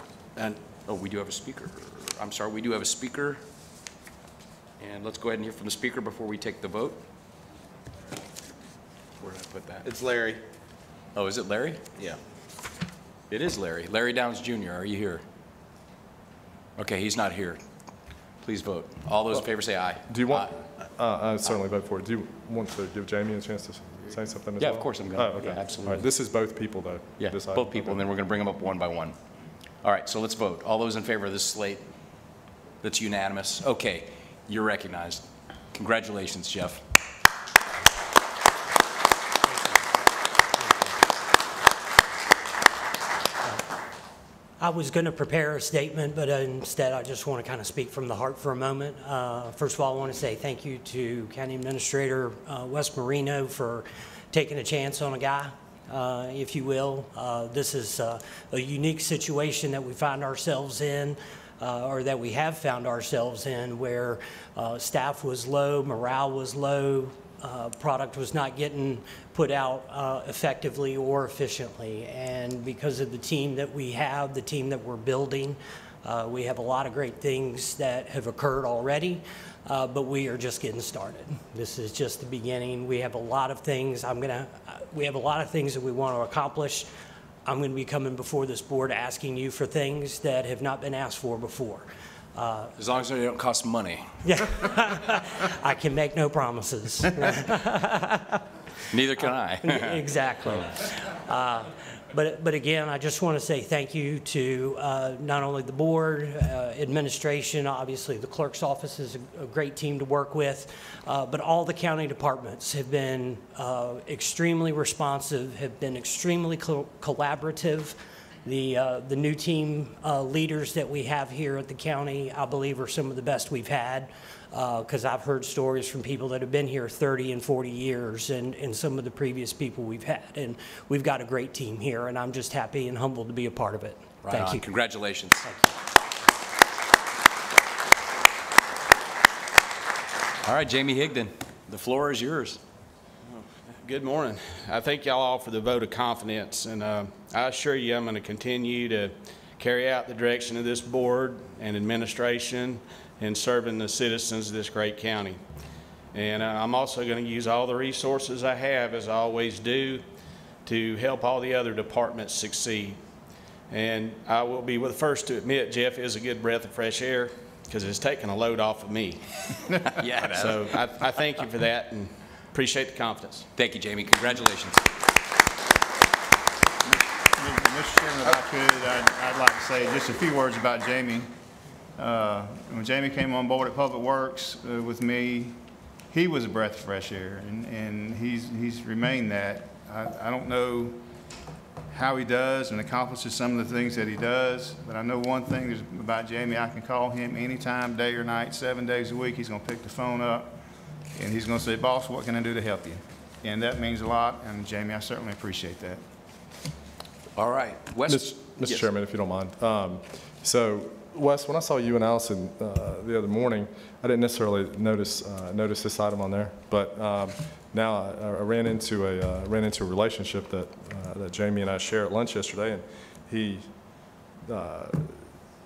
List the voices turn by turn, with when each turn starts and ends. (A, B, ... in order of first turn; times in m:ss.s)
0:00.4-0:00.6 A
0:00.8-0:03.4 B
0:04.8-0:07.0 B
0:09.2-0:09.8 B
0:09.8-0:10.4 A
0:11.1-0:11.8 B
0:13.3-0:15.2 B
0:16.8-0:17.6 B
0:18.4-0:20.6 B
0:20.1-0:28.0 C
0:24.6-0:26.1 B
0:27.2-0:29.1 B
0:29.8-0:31.9 B
0:32.8-0:36.8 B
0:44.6-1:26.8 D
1:27.4-1:32.7 D
1:32.8-1:34.2 B
1:35.6-1:37.3 D
1:38.9-1:40.8 B
1:39.7-1:40.7 D
1:41.3-1:57.9 D
1:58.4-2:14.6 D
2:14.2-2:15.5 B
2:20.4-2:22.6 B
2:23.3-2:35.4 A
2:36.1-2:40.0 A
2:40.6-2:43.0 A
2:43.7-2:49.2 A
2:49.9-2:51.0 B
2:50.2-2:53.5 A
2:53.6-2:54.8 B
2:57.4-3:01.3 E
3:02.0-3:11.0 E
3:11.9-3:20.6 E
3:21.1-3:26.0 E
3:27.4-3:28.9 B
3:28.1-3:43.9 C
3:44.4-3:45.2 C